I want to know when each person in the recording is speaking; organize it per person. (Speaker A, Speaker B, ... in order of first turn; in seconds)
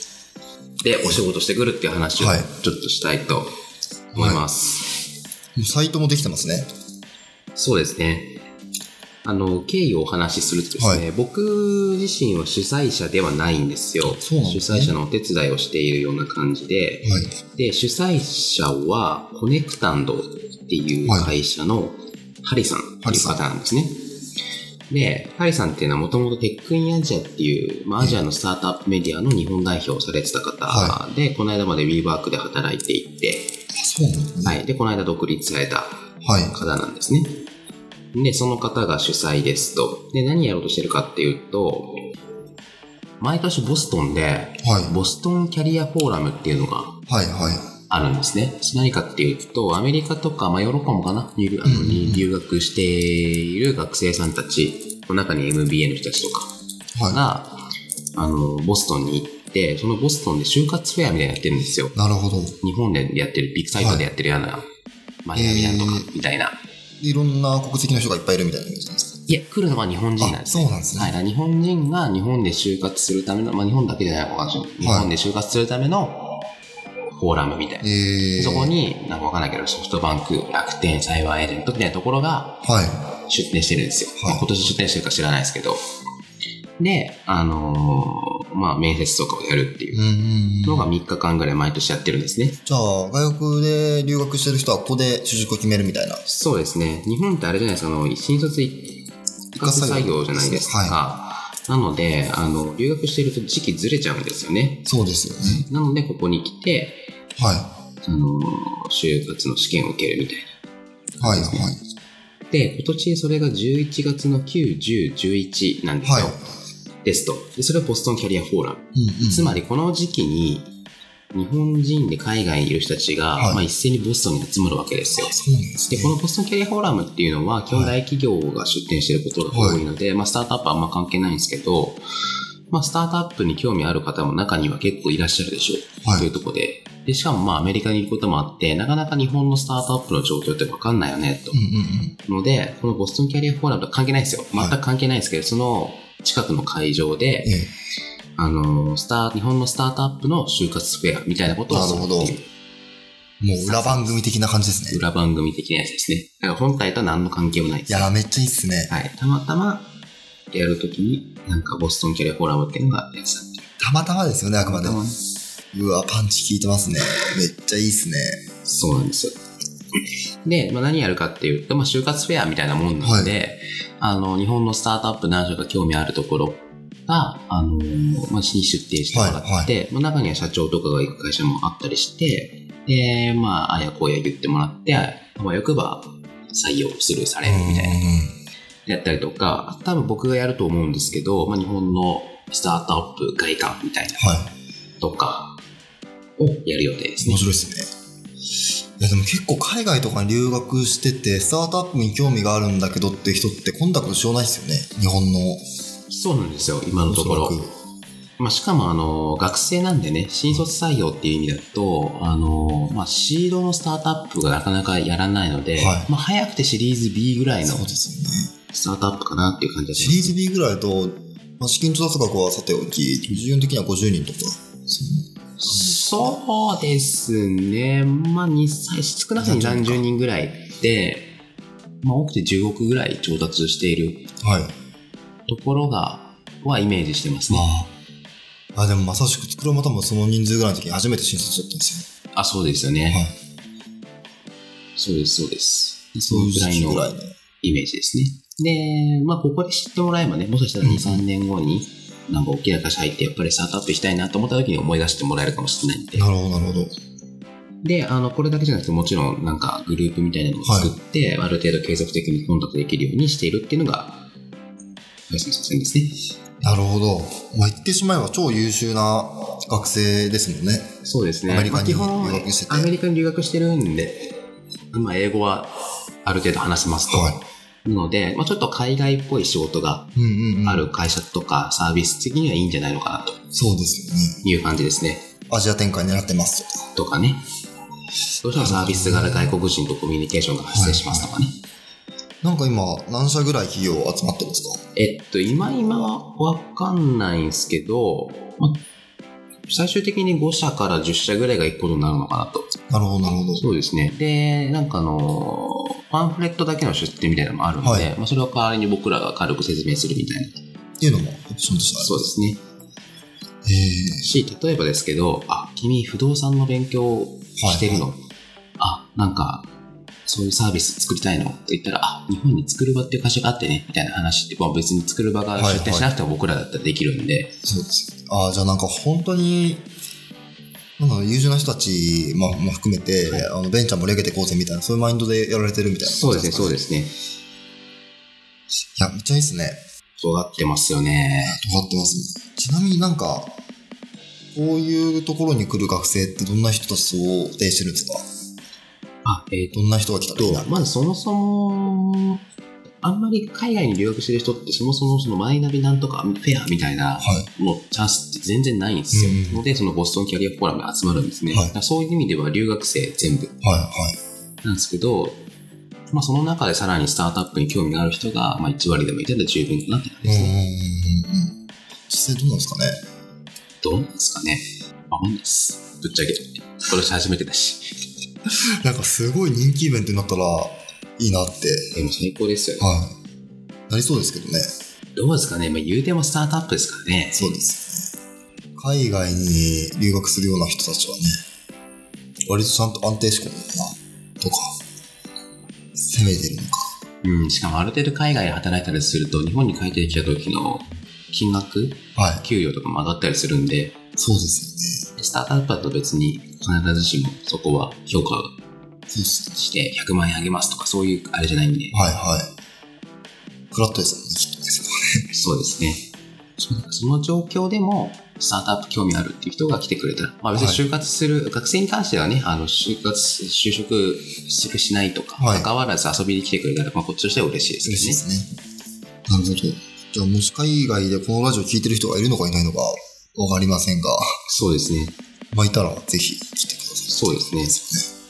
Speaker A: 0.8-3.5, 4.2-5.0, 7.5-8.4, 9.2-24.0, 24.9-33.6, 34.5-37.4, 38.1-42.0, 43.2-47.0, 47.9-56.5, 57.1-57.6, 58.2-62.0, 62.6-64.7, 65.2-66.6, 69.3-76.5, 77.2-82.6, 83.3-85.8, 86.8-90.0, 90.7-92.6, 96.3-99.0, 99.6-104.9, 105.4-107.1, 108.0-110.5, 111.2-111.7, 112.5-116.4, 117.0-120.7, 121.3-125.4, 125.9-132.0, 132.7-141.6, 142.3-147.5, 148.4-152.5, 153.6-154.2, 154.9-158.1, 158.9-159.9, 160.5-163.7, 164.6-165.2, 168.7-169.4, 170.4-188.0, 188.9-194.2, 195.0-195.6, 196.4-197.6, 206.1-207.6, 208.4-217.9, 218.7-220.3, 225.6-231.3, 232.0-234.3, 235.5-237.7, 242.3-243.2, 245.0-247.1, 247.6-256.3, 257.8-264.2, 265.3-266.1, 271.0-274.4, 274.9-280.1, 280.6-283.4, 284.4-285.3, 286.9-287.4, 288.4-291.6, 295.0-298.8, 299.7-302.7, 303.6-310.6, 312.0-312.6, 314.2-318.2, 318.8-319.7, 320.3-327.5, 333.2-333.5, 336.0-337.1, 340.2-341.6, 349.2-349.8, 350.4-352.4, 353.0-363.5, 364.6-365.4, 366.1-370.6, 373.8-377.9, 381.9-382.9, 385.2-387.5, 397.2-404.0, 405.2-408.5, 409.5-412.0, 415.3-416.1, 416.6-428.2, 434.5-435.1, 437.1-437.8
Speaker B: 2.2-2.5, 4.1-4.5, 5.5-6.7, 10.8-11.1, 14.0-15.0, 17.0-17.3, 21.1-21.4, 23.0-23.5, 30.7-31.0, 33.7-34.6, 36.2-36.5, 44.6-45.0, 47.1-47.6, 51.6-52.3, 57.0-57.2, 61.9-62.6, 63.8-64.1, 65.3-66.1, 67.0-69.1, 70.2-71.2, 74.8-75.1, 77.8-78.8, 82.6-83.0, 84.2-84.5, 89.9-90.9, 92.7-96.2, 99.5-101.0, 104.9-105.6, 107.4-107.7, 111.2-111.8, 116.0-116.4, 119.0-119.6, 123.4-123.7, 125.2-126.2, 127.7-128.0, 129.5-129.9, 136.0-136.3, 141.5-142.1, 147.4-147.7, 151.7-152.3, 153.4-155.0, 157.9-158.9, 163.8-165.0, 165.7-168.4, 173.0-173.3, 179.1-179.7, 187.4-188.3, 194.2-194.5, 197.2-197.9, 199.0-205.6, 207.1-207.7, 215.8-216.1, 217.6-218.5, 219.9-226.4, 229.4-230.1, 234.4-234.7, 237.5-237.9, 238.8-242.1, 246.3-247.3, 250.8-251.2, 256.2-256.9, 260.6-260.9, 266.6-270.9, 271.5-272.9, 277.1-277.4, 280.1-280.9, 283.5-284.4, 285.5-286.8, 288.6-289.6, 290.7-291.3, 292.4-294.8, 302.9-303.6, 307.8-308.1, 311.0-312.3, 313.6-314.2, 317.6-318.1, 325.6-326.1, 327.6-329.9, 331.0-336.8, 339.0-339.8, 341.4-343.5, 344.5-348.2, 349.7-350.9, 357.2-357.5, 359.1-359.6, 363.6-364.2, 370.2-371.5, 372.1-373.0, 378.8-382.0, 382.8-383.1, 383.9-384.7, 387.3-388.1, 388.8-391.4, 392.5-394.7, 395.9-396.9, 402.2-402.4, 404.2-405.1, 409.1-409.6, 411.9-412.5, 413.7-415.3, 420.5-420.8, 425.4-425.7, 427.8-428.5, 429.3-434.2, 435.5-438.1